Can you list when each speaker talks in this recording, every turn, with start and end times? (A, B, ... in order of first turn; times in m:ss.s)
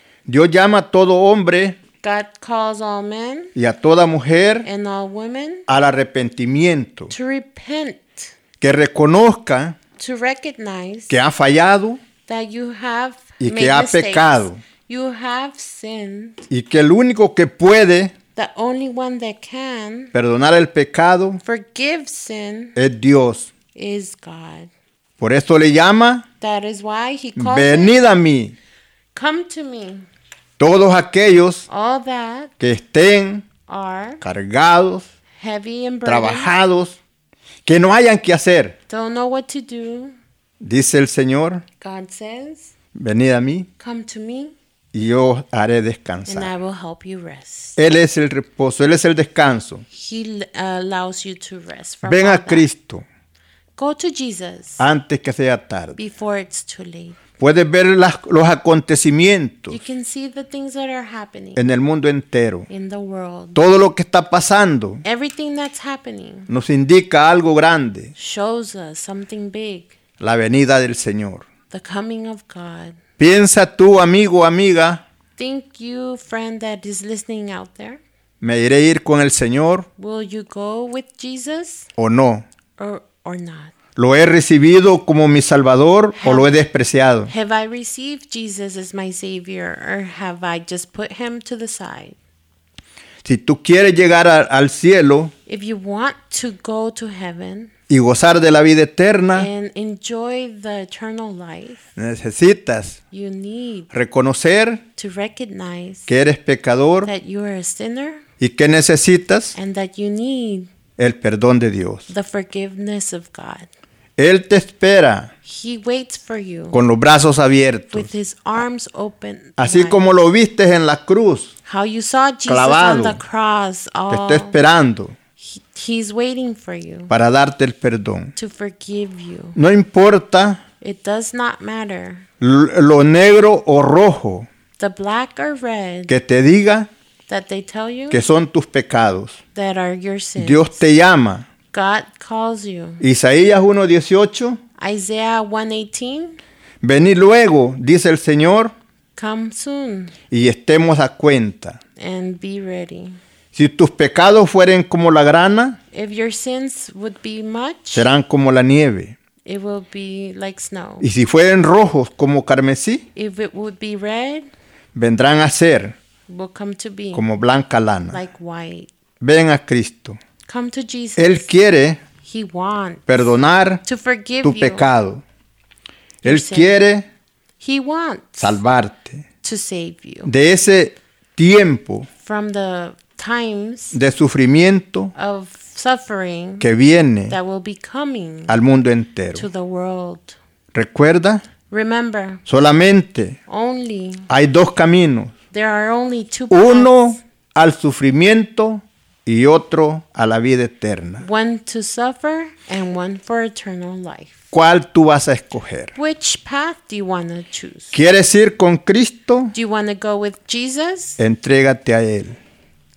0:00.3-0:01.8 A
0:02.0-0:03.5 B
0:03.6-0:04.7 A
0:04.6-0:05.7 B
0:05.7-0:07.1 A
0:07.1-0:08.3 B
0:08.6-0:09.8 A
0:10.0-0:11.2 B
0:11.1-0:12.0 A
0:12.3-0:16.4 B
0:13.4-0:14.6 A
0:16.5-0:18.1 A
0:18.4-0:20.1 B
0:20.1-0:21.4 A
0:21.4-0:22.8 B
0:22.8-0:23.5 A
0:23.7-0:24.7 B
0:25.2-0:26.3 A
0:26.4-0:28.0 B
0:27.4-0:28.6 A
0:29.1-0:30.1 B
0:30.6-0:31.6 A
0:31.7-0:32.5 B
0:32.6-0:33.5 A
0:33.7-0:34.2 B
0:34.2-0:35.1 A
0:35.4-0:36.5 B
0:36.0-0:37.0 A
0:37.6-0:38.8 A
0:38.9-0:40.1 B
0:40.6-0:41.6 A
0:41.8-0:42.7 B
0:42.9-0:43.7 A
0:43.8-0:44.5 B
0:44.9-0:46.5 A
0:46.3-0:47.8 B
0:47.8-0:49.8 A
0:49.9-0:52.7 B
0:52.0-0:53.1 A
0:53.8-0:54.8 B
0:54.8-0:56.0 A
0:56.0-0:57.2 B
0:57.4-0:59.8 A
0:59.7-1:01.6 B
1:01.6-1:02.7 A
1:02.7-1:03.6 B
1:03.6-1:05.0 A
1:05.0-1:06.5 B
1:06.5-1:08.1 A
1:08.2-1:09.9 B
1:10.2-1:11.4 A
1:11.7-1:13.0 B
1:13.2-1:15.0 A
1:15.4-1:18.0 B
1:18.4-1:19.9 A
1:20.0-1:21.9 B
1:22.0-1:22.4 A
1:22.8-1:23.7 B
1:24.0-1:27.3 A
1:26.2-1:26.5 B
1:27.3-1:32.2 B
1:33.2-1:35.3 A
1:35.5-1:37.7 B
1:37.9-1:39.5 A
1:39.3-1:41.8 B
1:42.0-1:43.0 A
1:43.1-1:43.9 B
1:43.9-1:44.8 A
1:45.0-1:46.1 B
1:46.1-1:47.1 A
1:47.0-1:48.2 B
1:48.4-1:49.6 A
1:49.6-1:50.7 B
1:51.0-1:52.1 A
1:52.1-1:53.7 B
1:54.2-1:55.3 A
1:55.4-1:56.8 B
1:56.7-1:58.1 A
1:57.9-2:00.0 B
1:59.6-2:01.5 A
2:01.6-2:04.6 B
2:02.5-2:03.2 A
2:04.1-2:05.2 A
2:05.4-2:07.1 B
2:07.1-2:08.3 A
2:08.4-2:09.6 B
2:09.6-2:10.6 A
2:10.8-2:12.3 B
2:12.4-2:14.5 A
2:14.8-2:16.1 B
2:16.1-2:16.9 A
2:17.3-2:18.2 B
2:18.1-2:19.4 A
2:19.6-2:20.8 B
2:20.4-2:21.5 A
2:21.7-2:23.0 B
2:23.0-2:24.6 A
2:24.8-2:26.4 B
2:26.8-2:28.7 A
2:29.2-2:30.1 B
2:30.3-2:31.8 A
2:32.0-2:33.2 B
2:33.5-2:35.8 A
2:35.9-2:38.1 B
2:37.9-2:39.2 A
2:39.4-2:41.1 B
2:41.0-2:43.0 A
2:43.1-2:44.5 B
2:44.9-2:46.0 A
2:46.3-2:47.2 B
2:47.1-2:48.2 A
2:48.1-2:48.9 B
2:49.2-2:50.2 A
2:50.5-2:51.5 B
2:51.2-2:52.0 A
2:52.2-2:54.9 B
2:53.1-2:53.8 A
2:54.4-2:55.2 A
2:56.2-2:56.8 B
2:56.2-2:57.1 A
2:57.6-2:58.6 B
2:58.4-2:59.2 A
2:59.4-3:00.3 B
3:00.2-3:02.1 A
3:02.2-3:04.0 B
3:03.9-3:05.1 A
3:05.1-3:06.7 B
3:06.6-3:07.4 A
3:07.3-3:08.6 B
3:08.5-3:09.5 A
3:09.3-3:10.4 B
3:10.7-3:11.4 A
3:11.7-3:12.4 B
3:12.5-3:13.4 A
3:13.5-3:14.3 B
3:14.3-3:15.3 A
3:15.5-3:17.2 B
3:16.5-3:21.2 A
3:21.2-3:24.4 B
3:24.5-3:25.9 A
3:26.0-3:27.9 B
3:27.9-3:29.5 A
3:29.5-3:31.2 B
3:31.2-3:32.4 A